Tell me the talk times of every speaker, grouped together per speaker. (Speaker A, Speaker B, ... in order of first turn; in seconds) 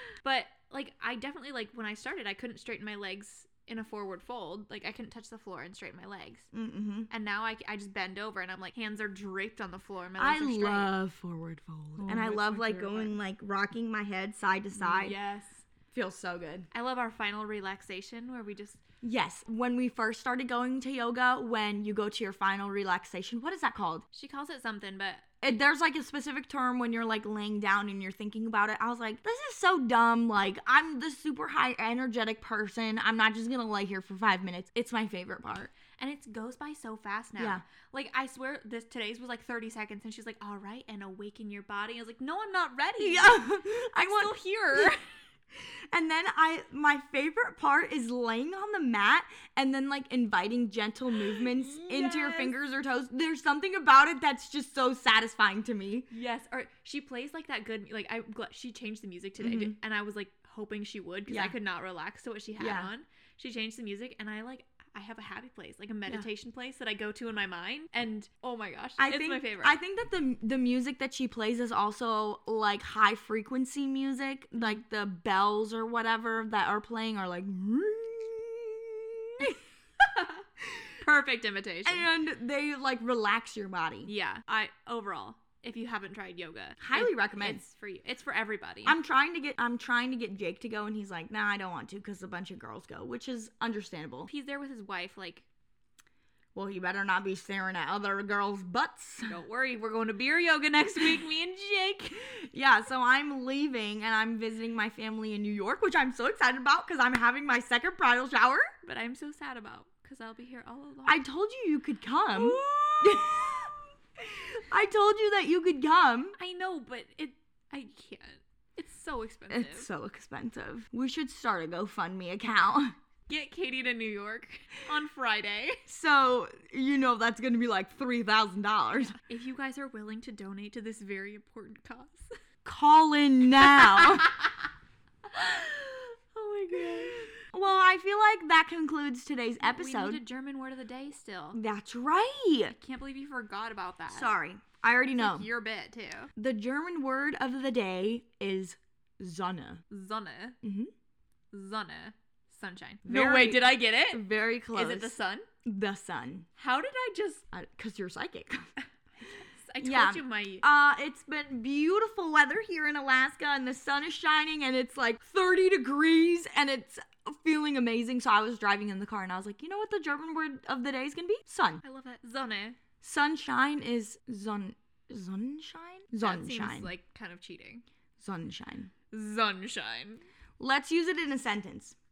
Speaker A: 0.2-6.5, 7.1-10.9, 12.0-13.1, 14.8-15.6, 16.7-18.8, 24.1-25.3, 36.0-43.4, 44.0-45.0, 51.6-52.5, 56.1-69.8, 80.1-80.4, 81.0-82.1, 84.1-89.0, 94.3-95.5, 99.3-102.3, 108.8-111.2, 112.3-113.6, 116.4-119.9, 123.3-125.8, 129.1-132.3, 133.8-134.3, 135.3-137.3, 139.6-141.6, 142.7-144.3, 145.2-146.3, 149.9-150.6, 151.5-155.5, 156.6-157.4, 159.2-160.7, 171.8-172.8, 176.2-177.8, 179.1-180.2
Speaker B: 6.5-7.1, 10.2-15.1, 15.9-16.7, 19.0-24.1, 25.4-35.7, 37.4-37.6, 43.0-44.9, 45.5-56.1, 59.4-59.8, 61.3-61.5, 62.6-62.9, 69.0-79.6, 81.8-84.1, 86.8-87.6, 88.8-94.3, 96.5-99.4, 102.4-108.7, 111.0-113.7, 114.7-116.4, 119.5-123.0, 125.9-129.2, 132.7-134.3, 136.4-140.2, 141.5-142.8, 144.1-145.5, 146.4-149.8, 150.6-150.9, 153.1-156.5, 157.5-158.7, 159.8-171.8, 173.0-176.9, 178.2-178.9, 180.6-181.9